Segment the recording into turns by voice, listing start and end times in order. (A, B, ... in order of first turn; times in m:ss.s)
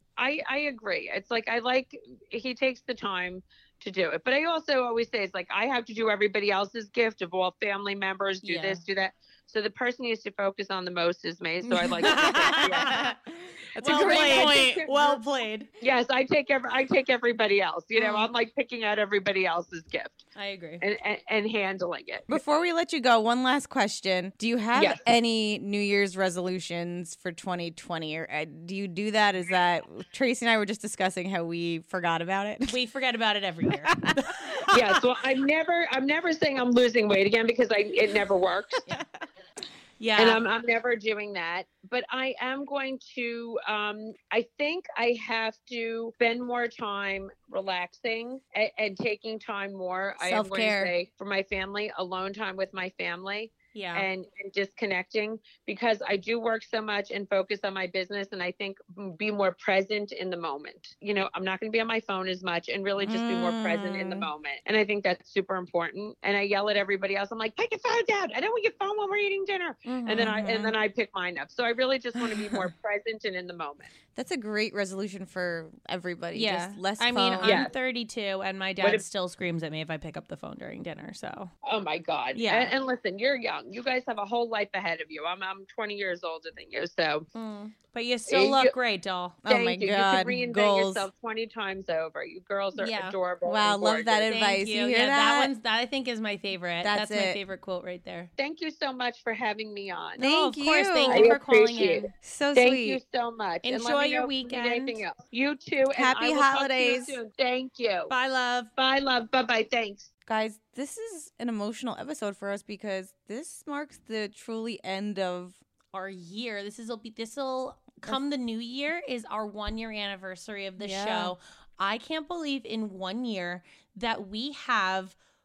0:00.2-0:13.1 A
0:08.4-0:08.8 B
0:11.6-0:13.0 B
0:12.0-0:15.2 C
0:13.8-0:15.7 B
0:13.8-0:14.9 A
0:15.8-0:20.2 A
0:18.0-0:18.3 B
0:20.4-0:20.8 B
0:20.8-0:22.3 A
0:22.3-0:32.8 C
0:24.7-0:25.0 A
0:32.7-0:34.6 B
0:33.7-0:35.0 C
0:34.7-0:39.0 A
0:40.0-0:40.4 B
0:40.2-1:13.9 A
0:50.2-0:50.9 C
0:53.7-0:54.1 B
1:03.0-1:04.3 C
1:09.9-1:10.4 B
1:10.2-1:10.7 C
1:12.2-1:12.7 C
1:14.1-1:17.6 C
1:16.3-1:21.5 B
1:17.4-1:17.7 A
1:21.6-1:27.3 A
1:22.3-1:22.7 B
1:27.3-1:29.4 B
1:28.3-1:28.7 A
1:29.4-1:31.1 C
1:29.5-1:34.3 A
1:32.8-1:33.1 B
1:33.4-1:35.5 C
1:34.2-1:38.3 B
1:36.8-1:37.4 C
1:38.4-1:40.2 A
1:40.2-1:41.3 C
1:40.2-1:42.1 B
1:41.1-1:48.1 A
1:42.2-1:43.0 C
1:43.6-1:45.0 B
1:45.9-1:47.2 C
1:48.1-1:48.7 B
1:48.8-1:50.1 A
1:50.3-1:55.6 C
1:55.9-2:05.2 B
2:00.8-2:01.3 C